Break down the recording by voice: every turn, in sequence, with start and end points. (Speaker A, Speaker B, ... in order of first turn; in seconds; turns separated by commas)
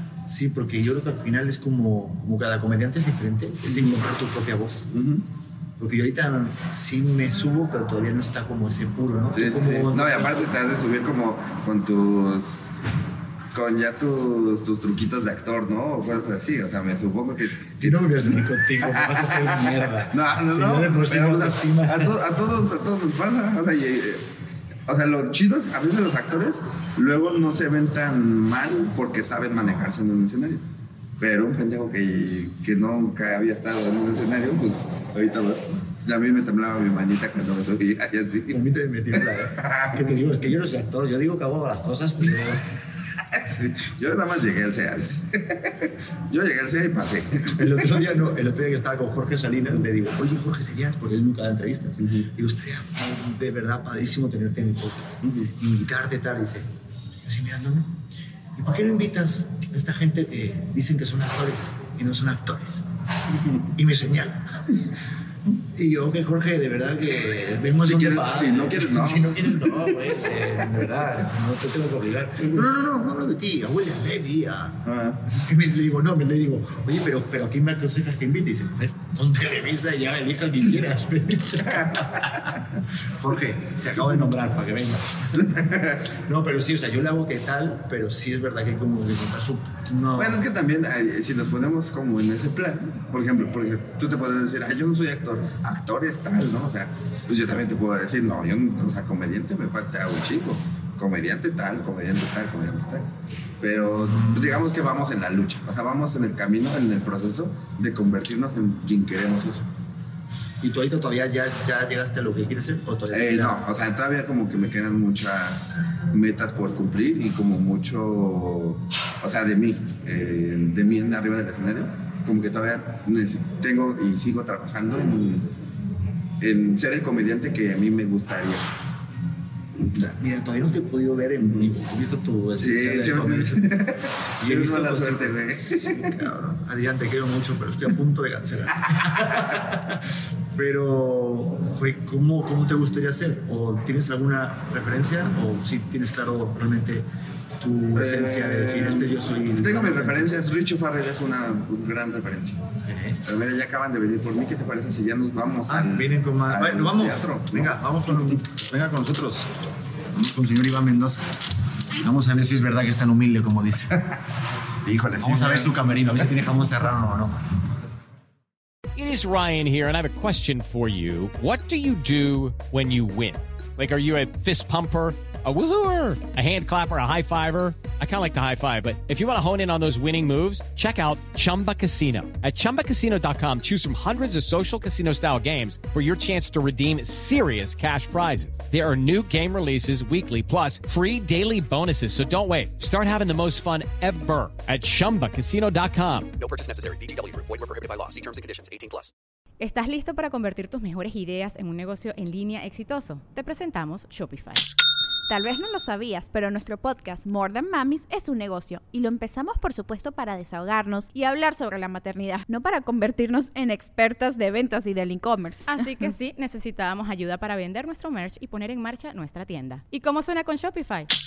Speaker A: 0.3-4.9, Speaker B: 3.7-3.9, Speaker B: 4.9-5.3, Speaker A: 5.8-10.4, Speaker B: 9.3-12.7, Speaker B: 13.5-24.3, Speaker A: 17.8-22.2, Speaker B: 24.9-30.6, Speaker B: 31.2-38.6, Speaker A: 38.5-42.7, Speaker B: 39.1-40.2, Speaker B: 43.3-48.1, Speaker A: 47.5-56.7, Speaker B: 52.0-52.3, Speaker B: 55.2-55.5, Speaker A: 57.2-58.0, Speaker A: 58.6-62.9, Speaker B: 63.3-63.6, Speaker A: 63.8-64.6, Speaker A: 65.5-74.8, Speaker B: 67.8-70.6, Speaker B: 72.4-72.7, Speaker B: 74.8-75.2, Speaker A: 75.3-85.6, Speaker B: 81.7-82.6, Speaker B: 85.3-86.1, Speaker A: 86.2-90.4, Speaker B: 90.2-103.1, Speaker B: 103.6-109.7, Speaker A: 103.9-104.6, Speaker A: 110.6-113.6, Speaker B: 113.1-125.5, Speaker B: 126.4-128.7, Speaker A: 129.9-133.7, Speaker B: 131.4-131.7, Speaker B: 132.6-136.2, Speaker A: 134.4-147.1, Speaker B: 138.9-139.5, Speaker A: 147.6-150.5, Speaker B: 147.9-152.6, Speaker A: 152.8-153.2, Speaker B: 153.2-158.4, Speaker A: 155.7-159.5, Speaker A: 160.1-161.2, Speaker A: 161.9-164.0, Speaker B: 164.8-166.2, Speaker A: 165.2-167.4, Speaker C: 169.0-196.3, Speaker D: 196.4-199.1, Speaker E: 199.6-204.7, Speaker F: 205.3-215.9, Speaker E: 215.7-221.1